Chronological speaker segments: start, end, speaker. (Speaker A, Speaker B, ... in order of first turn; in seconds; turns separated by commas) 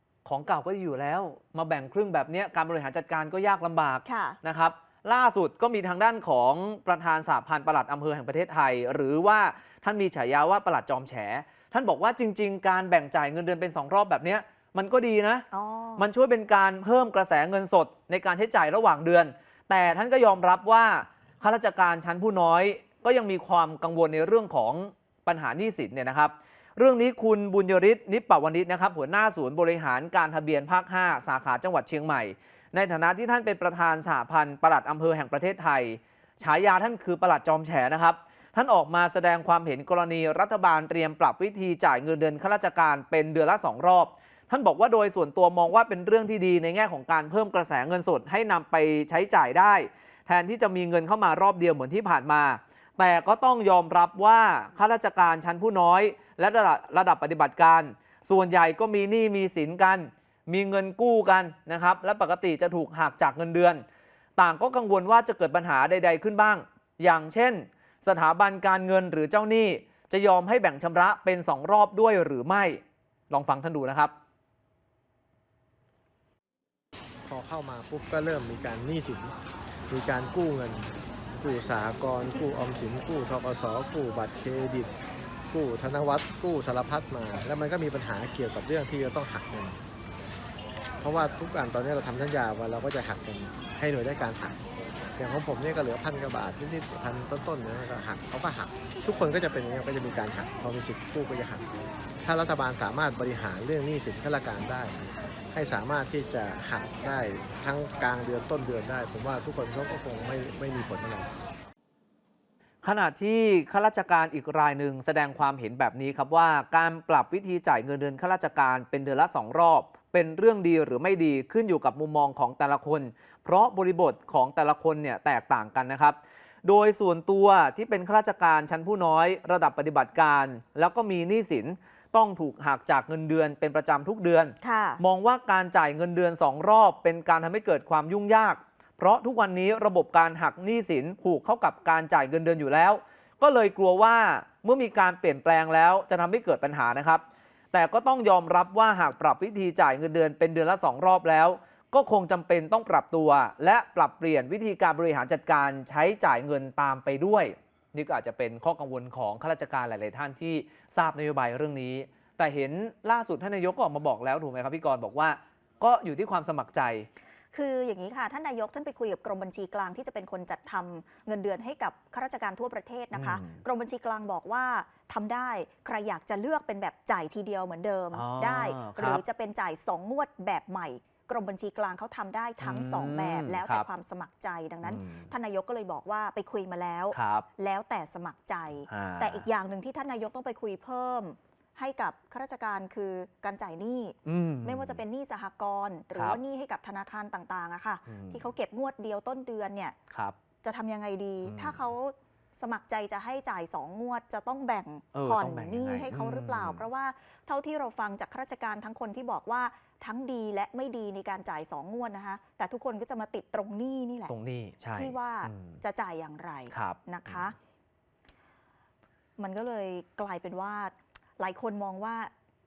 Speaker A: 0.2-15.4, Speaker B: 4.0-4.4, Speaker B: 15.5-16.1, Speaker A: 16.0-63.8, Speaker A: 64.4-74.1, Speaker C: 77.3-79.3, Speaker C: 79.9-84.9, Speaker C: 85.5-89.8, Speaker C: 91.0-94.6, Speaker C: 95.2-101.6, Speaker C: 102.2-111.3, Speaker A: 112.8-167.1, Speaker B: 134.6-135.0, Speaker B: 167.5-199.9, Speaker A: 173.1-173.6, Speaker A: 178.1-179.2, Speaker A: 182.6-183.8, Speaker A: 184.8-185.3, Speaker A: 187.1-187.4, Speaker A: 188.9-189.4, Speaker A: 194.2-195.0, Speaker A: 198.1-198.5, Speaker B: 200.6-214.3, Speaker A: 201.4-201.9, Speaker A: 205.1-206.8, Speaker A: 214.3-215.8, Speaker B: 214.9-217.5, Speaker A: 216.7-217.5, Speaker B: 219.4-222.3